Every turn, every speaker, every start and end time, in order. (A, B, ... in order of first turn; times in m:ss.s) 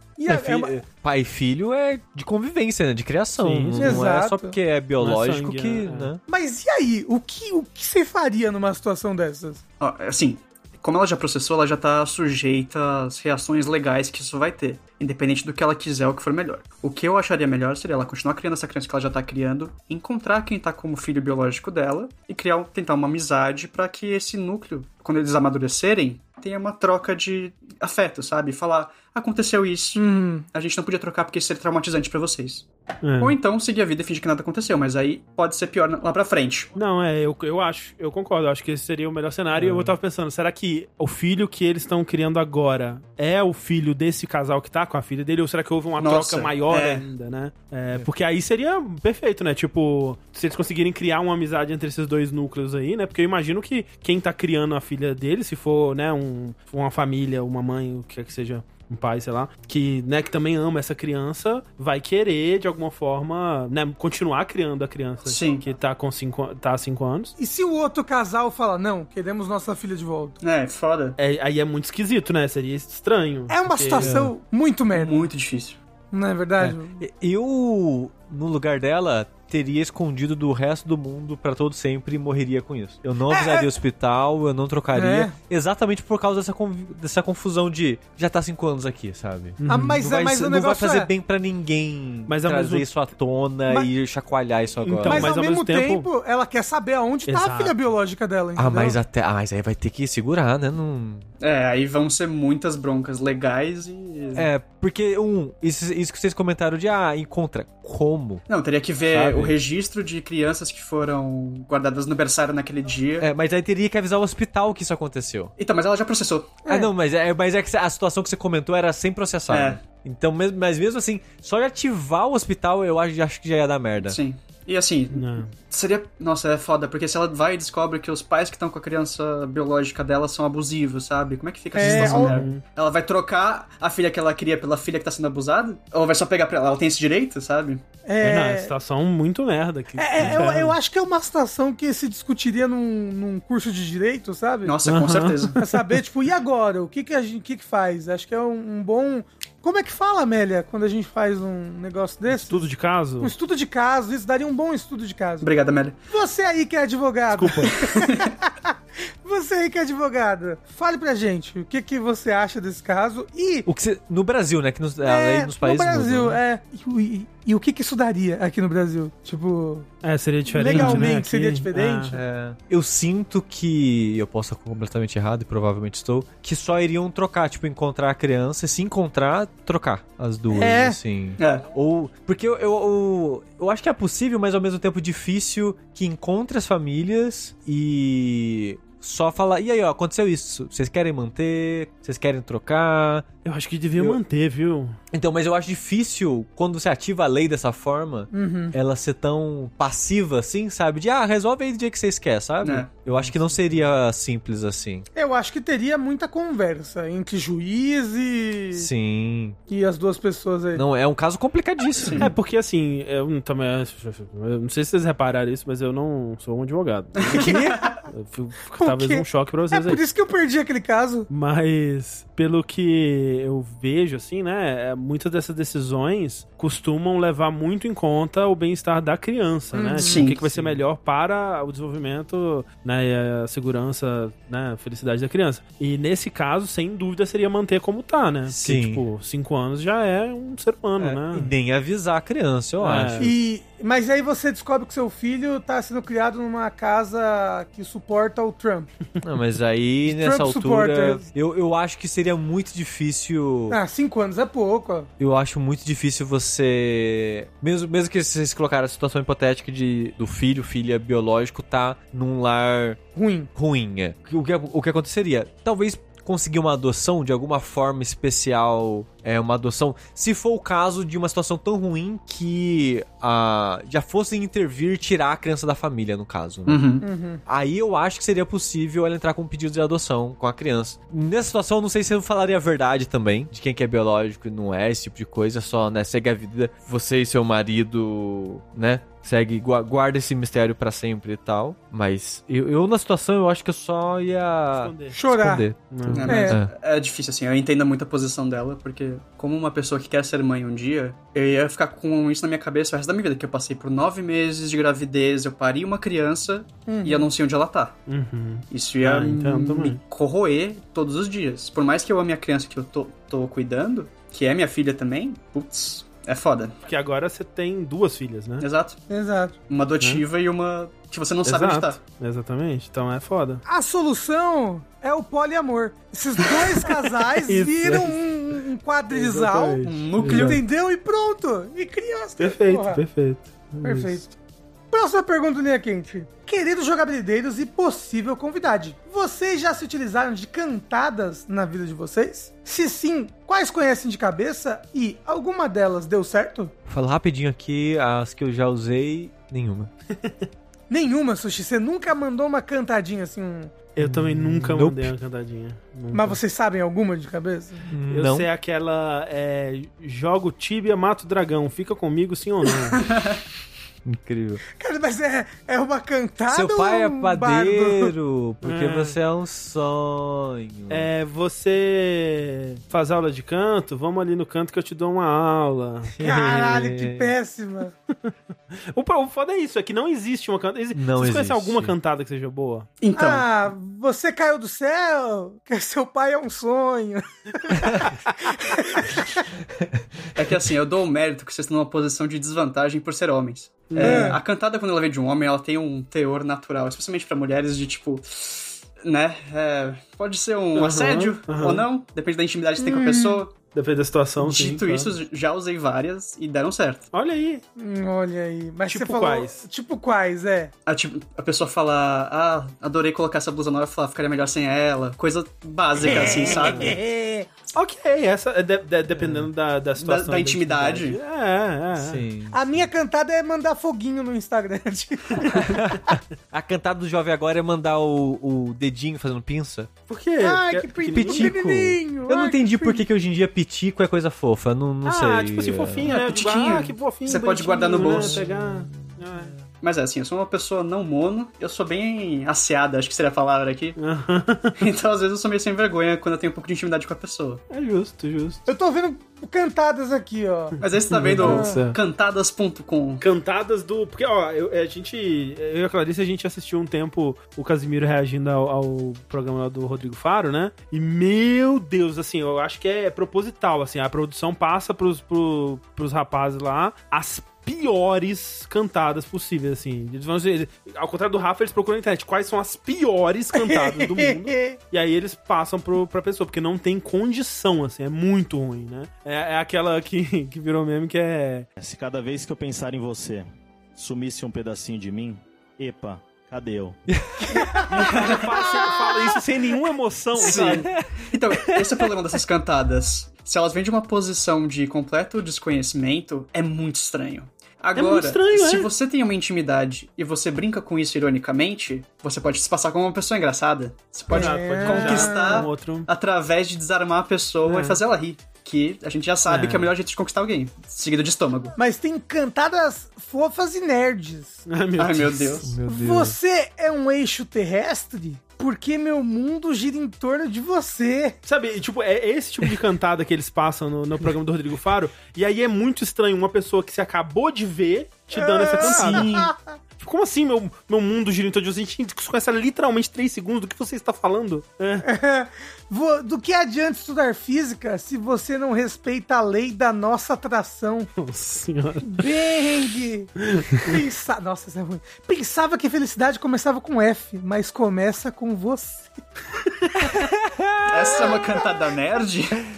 0:00.2-0:00.8 A
0:00.3-0:06.2 B
0:03.4-0:04.1 C
0:03.8-0:04.6 A
0:05.0-0:06.1 C
0:06.3-0:09.6 A
0:09.8-0:32.7 D
0:30.0-0:30.5 A
0:33.0-0:33.4 C
0:33.2-0:36.7 D
0:36.8-1:07.4 C
0:39.6-0:40.0 B
0:46.0-0:47.0 D
1:05.2-1:05.7 D
1:07.4-1:10.4 A
1:10.4-1:11.2 D
1:11.2-1:14.3 C
1:13.5-1:15.3 A
1:14.9-1:15.8 D
1:16.1-1:17.0 A
1:16.6-1:35.3 B
1:23.3-1:23.7 A
1:24.9-1:25.4 A
1:29.6-1:30.0 C
1:29.7-1:31.1 A
1:32.3-1:32.9 C
1:34.8-1:36.1 C
1:35.0-1:39.0 A
1:37.3-1:37.8 C
1:38.6-1:41.2 B
1:41.4-1:44.5 D
1:44.4-1:48.4 B
1:48.5-1:53.3 D
1:49.1-1:49.6 B
1:53.2-1:55.5 B
1:55.6-1:56.6 D
1:56.7-1:56.9 A
1:56.7-2:04.2 B
1:59.5-1:59.8 D
2:04.0-2:17.8 D
2:05.1-2:05.5 C
2:11.8-2:12.6 C
2:11.8-2:12.4 A
2:18.0-2:18.7 A
2:18.2-2:20.8 C
2:20.0-2:24.7 A
2:24.6-2:25.6 D
2:24.8-2:26.0 C
2:25.6-2:35.5 A
2:32.3-2:33.3 C
2:35.4-2:36.0 D
2:36.1-2:43.7 A
2:37.3-2:37.8 C
2:37.9-2:38.3 D
2:43.7-2:46.4 B
2:45.0-2:49.9 A
2:50.0-2:52.2 C
2:50.5-2:52.2 A
2:50.6-2:51.1 B
2:52.1-3:13.3 B
3:00.5-3:01.0 A
3:01.4-3:01.7 D
3:13.4-3:15.0 C
3:15.1-3:25.1 B
3:18.3-3:18.8 A
3:22.6-3:22.9 D
3:23.1-3:23.9 C
3:25.2-3:28.9 A
3:28.7-3:29.6 B
3:29.7-3:30.8 A
3:30.8-3:32.3 B
3:32.0-3:32.3 D
3:32.2-3:40.0 C
3:37.2-3:38.0 D
3:37.3-3:38.0 A
3:38.8-3:41.3 A
3:41.3-4:01.5 C
3:49.7-3:50.3 A
3:50.0-3:50.7 D
3:58.5-3:59.0 B
4:01.0-4:03.3 B
4:02.8-4:03.3 C
4:03.2-4:08.9 A
4:09.2-4:13.8 B
4:10.1-4:11.2 A
4:13.7-4:15.1 A
4:15.2-4:23.0 B
4:23.2-4:23.5 A
4:23.6-4:36.9 B
4:36.7-4:37.0 D
4:37.0-4:37.4 A
4:37.5-4:56.7 B
4:54.7-4:55.2 C
4:55.1-4:55.7 A
4:55.9-4:56.3 C
4:56.1-5:08.0 D
4:56.3-4:56.6 A
5:06.9-5:07.3 A
5:08.1-5:10.0 C
5:08.7-5:16.8 D
5:16.9-5:18.7 C
5:18.6-5:19.0 D
5:19.1-5:19.6 A
5:19.7-5:22.0 D
5:21.4-5:23.6 C
5:23.6-5:33.0 A
5:26.7-5:28.2 C
5:29.1-5:30.6 C
5:29.8-5:30.6 D
5:32.4-5:34.2 C
5:33.8-5:34.3 A
5:34.9-5:46.7 A
5:46.9-5:49.9 B
5:50.2-5:50.5 C
5:50.9-5:53.7 A
5:54.0-5:56.4 C
5:54.0-5:55.1 B
5:56.1-5:57.9 A
5:57.9-5:58.5 B
5:58.1-6:03.0 C
6:03.0-6:03.4 D
6:04.0-6:04.6 B
6:04.8-6:08.1 A
6:06.5-6:11.1 B
6:08.6-6:09.2 C
6:10.9-6:16.7 C
6:16.2-6:17.3 B
6:16.2-6:17.9 A
6:18.3-6:22.9 C
6:20.9-6:21.9 B
6:23.0-6:23.5 D
6:23.2-6:29.5 A
6:30.4-6:43.5 D
6:33.9-6:34.4 C
6:34.0-6:34.4 A
6:40.8-6:41.9 C
6:42.8-6:43.4 A
6:43.7-6:45.1 C
6:44.4-6:47.1 D
6:47.1-6:47.6 C
6:47.8-6:50.7 A
6:48.9-6:49.7 C
6:50.9-6:57.0 D
6:56.1-6:57.5 A
6:56.1-6:57.0 C
6:57.7-7:02.2 C
6:59.2-6:59.5 B
7:00.0-7:01.2 D
7:02.0-7:02.9 B
7:02.5-7:05.9 A
7:05.5-7:09.9 B
7:10.1-7:11.5 C
7:10.4-7:13.0 A
7:11.1-7:16.1 B
7:15.0-7:19.5 C
7:16.0-7:18.5 D
7:18.0-7:19.6 B
7:19.8-7:24.0 D
7:24.0-7:24.9 C
7:24.8-7:27.6 D
7:27.7-7:28.7 C
7:28.7-7:30.8 A
7:30.8-7:32.0 C
7:30.8-7:33.2 D
7:31.4-7:31.8 A
7:33.2-8:01.7 C
7:53.5-7:54.8 A
8:01.8-8:07.0 E
8:07.1-8:08.1 B
8:07.5-8:08.1 A
8:07.9-8:10.9 C
8:08.0-8:08.6 D
8:10.4-8:31.8 D
8:10.5-8:12.1 B
8:18.0-8:18.9 C
8:24.3-8:26.1 C
8:24.3-8:25.7 A
8:27.6-8:28.0 C
8:29.5-8:29.9 C
8:31.8-8:34.6 A
8:34.7-8:35.6 C
8:35.0-8:35.8 D
8:35.6-8:36.4 B
8:35.9-8:41.4 A
8:41.4-8:49.4 C
8:48.3-8:49.8 A
8:48.8-8:49.5 D
8:50.0-8:55.1 C
8:55.0-9:01.1 A
9:01.2-9:02.3 C
9:02.0-9:03.3 A
9:03.5-9:04.0 C
9:03.8-9:09.2 A
9:10.1-9:11.2 B
9:10.9-9:12.6 D